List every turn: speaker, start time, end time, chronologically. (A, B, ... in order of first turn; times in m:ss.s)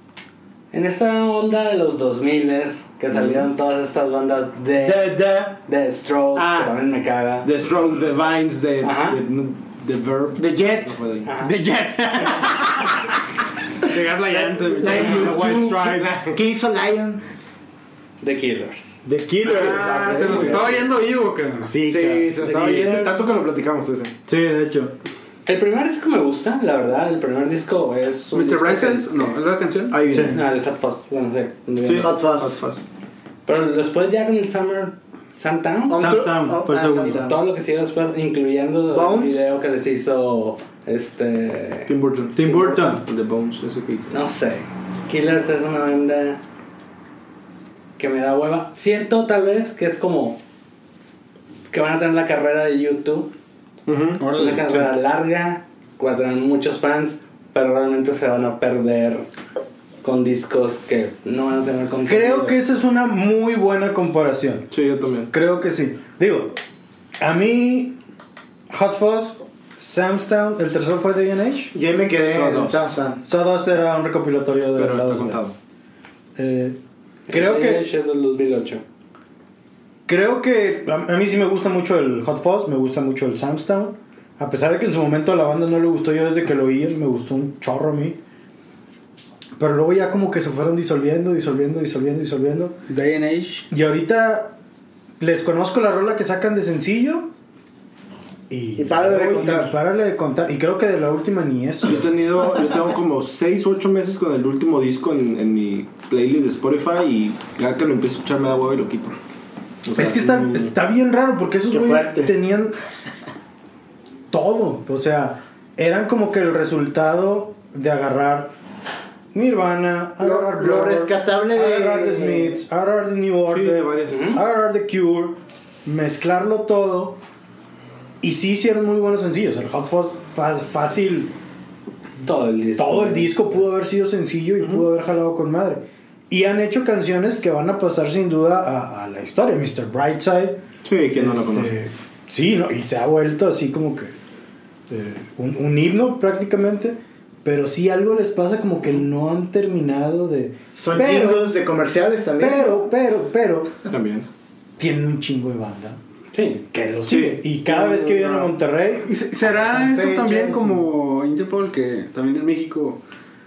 0:00.7-0:07.5 A
0:03.1-0:03.5 B
0:04.8-0:05.6 C
0:06.4-0:06.7 B
0:07.4-0:11.3 B
0:08.8-0:09.2 A
0:10.4-0:11.0 D
0:11.2-0:11.6 A
0:11.4-0:13.2 C
0:13.8-0:15.4 E
0:14.3-0:16.3 C
0:14.7-0:17.2 D
0:15.0-0:16.4 B
0:18.2-0:19.0 A
0:19.0-0:20.7 C
0:19.4-0:21.7 E
0:19.4-0:20.8 B
0:21.6-0:23.1 C
0:21.8-0:24.1 B
0:22.4-0:23.1 D
0:24.3-0:24.9 C
0:25.4-0:29.3 A
0:28.3-0:30.0 E
0:29.9-0:30.4 B
0:30.1-0:30.4 C
0:30.2-0:32.1 A
0:31.8-0:32.8 B
0:32.0-0:32.6 D
0:33.4-0:36.2 A
0:35.9-0:37.4 D
0:35.9-0:37.3 C
0:37.2-0:41.9 A
0:38.9-0:39.5 D
0:41.9-0:44.2 B
0:42.3-0:43.0 C
0:44.1-0:46.4 A
0:48.0-0:50.4 A
0:51.7-0:53.3 A
0:53.8-0:54.4 B
0:54.2-0:54.9 E
0:54.3-0:59.3 A
1:00.0-1:02.6 A
1:02.0-1:04.7 C
1:04.7-1:05.3 B
1:05.3-1:06.6 C
1:07.2-1:08.0 C
1:08.7-1:11.7 C
1:11.7-1:13.2 D
1:12.1-1:12.8 B
1:13.2-1:15.4 C
1:14.8-1:15.5 B
1:16.4-1:16.8 C
1:17.3-1:18.8 A
1:17.3-1:17.8 C
1:20.0-1:28.2 C
1:29.6-1:32.8 C
1:32.9-1:33.6 E
1:33.7-1:34.5 C
1:35.2-1:37.3 C
1:38.5-1:42.1 C
1:38.8-1:39.7 D
1:41.8-1:49.2 B
1:49.8-1:50.7 B
1:50.0-1:52.7 C
1:51.7-1:52.3 D
1:54.3-1:58.5 C
1:59.3-2:07.2 C
2:00.2-2:02.6 D
2:03.5-2:04.4 B
2:04.1-2:04.4 A
2:08.2-2:11.3 C
2:12.2-2:13.6 A
2:12.8-2:20.6 C
2:20.8-2:21.7 B
2:21.1-2:24.1 C
2:24.9-2:31.5 C
2:30.8-2:32.8 D
2:32.4-2:33.8 C
2:33.9-2:34.3 B
2:34.8-2:36.0 C
2:36.3-2:36.6 A
2:36.7-2:39.2 C
2:37.1-2:38.5 B
2:39.0-2:43.0 E
2:39.7-2:40.8 D